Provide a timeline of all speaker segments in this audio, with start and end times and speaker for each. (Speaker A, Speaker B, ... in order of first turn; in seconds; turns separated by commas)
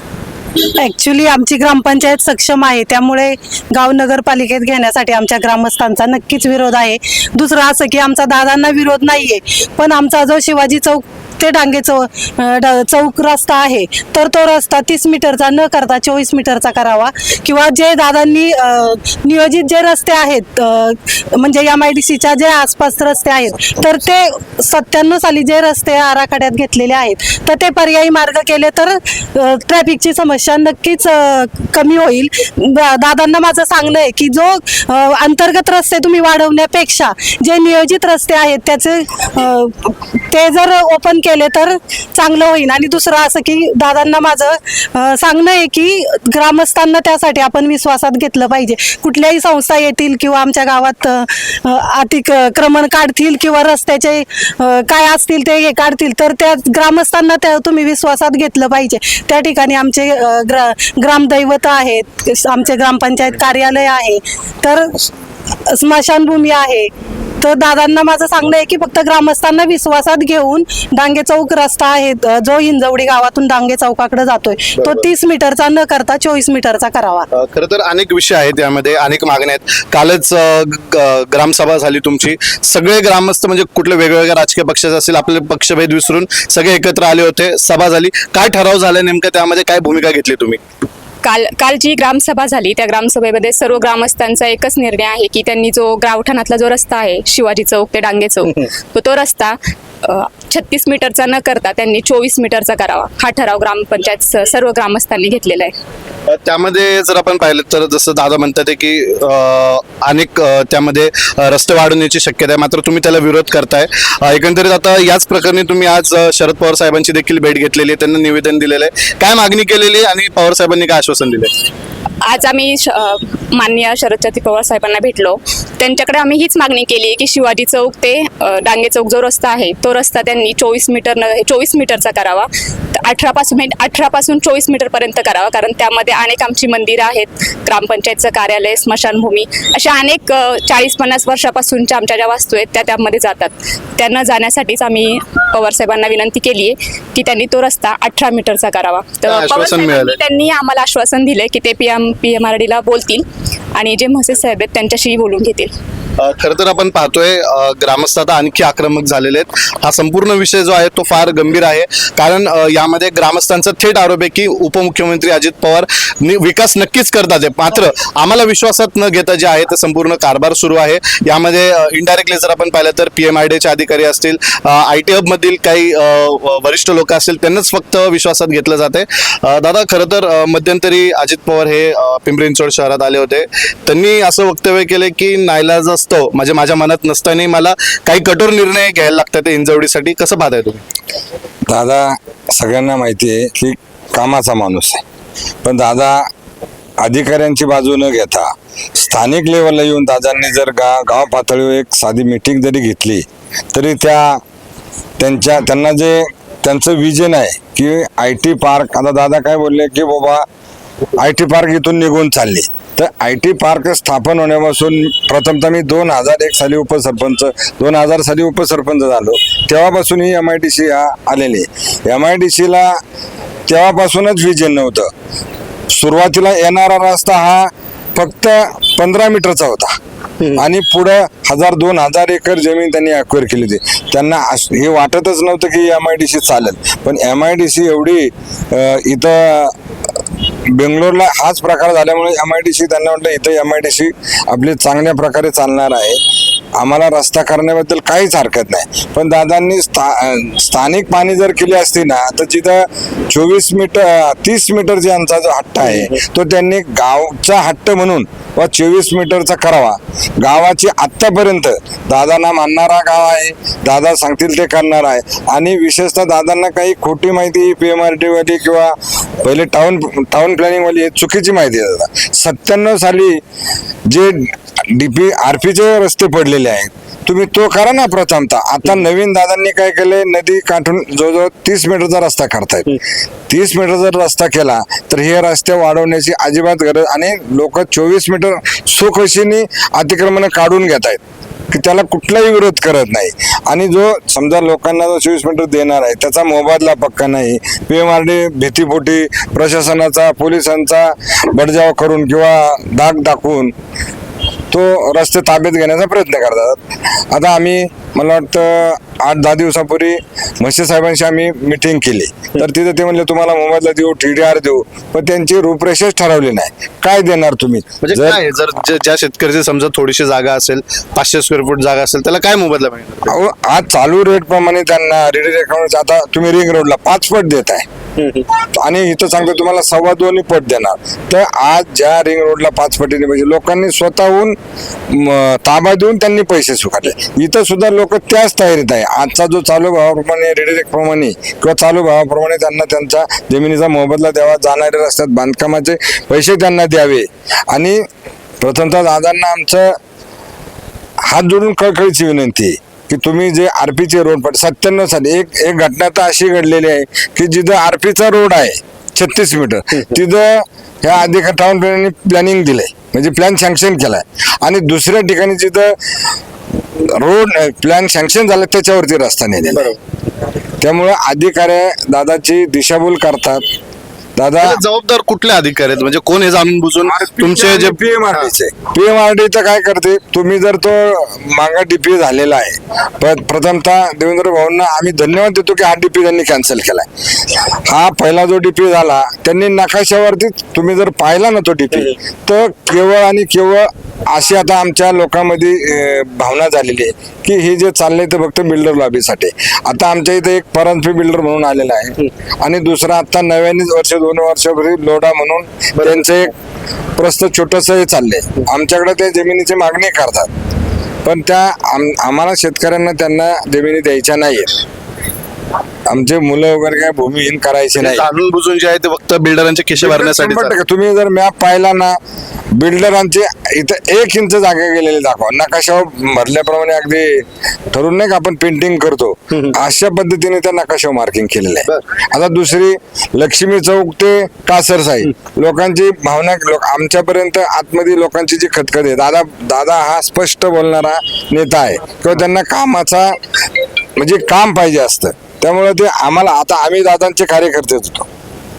Speaker A: 0.8-65.1, Speaker A: 65.7-77.3, Speaker B: 74.8-75.1, Speaker B: 77.3-90.6, Speaker C: 91.2-105.7, Speaker B: 106.3-121.5, Speaker C: 122.2-153.2, Speaker B: 149.3-150.2, Speaker C: 153.8-155.7, Speaker B: 156.2-190.8, Speaker D: 191.7-195.0, Speaker D: 195.6-196.3, Speaker D: 197.0-204.4, Speaker D: 205.2-210.5, Speaker D: 211.2-223.0, Speaker D: 223.7-225.1, Speaker D: 225.9-229.9, Speaker D: 230.6-239.8, Speaker D: 240.7-246.2, Speaker D: 246.8-273.4, Speaker D: 274.1-291.2, Speaker D: 291.7-303.8, Speaker D: 304.7-318.4, Speaker B: 318.0-323.4, Speaker D: 323.3-327.9, Speaker B: 328.2-328.5, Speaker D: 328.7-334.6, Speaker D: 335.1-348.0, Speaker D: 348.6-349.9, Speaker D: 351.3-366.0, Speaker D: 367.1-369.9, Speaker D: 370.8-373.6, Speaker D: 374.4-374.8, Speaker B: 374.6-378.5, Speaker D: 377.1-387.1, Speaker D: 387.9-406.5, Speaker B: 406.0-406.3, Speaker D: 407.2-410.5, Speaker D: 411.2-414.8, Speaker D: 416.1-418.3, Speaker B: 418.0-420.8, Speaker D: 420.0-422.2, Speaker D: 422.8-443.4, Speaker D: 444.2-448.3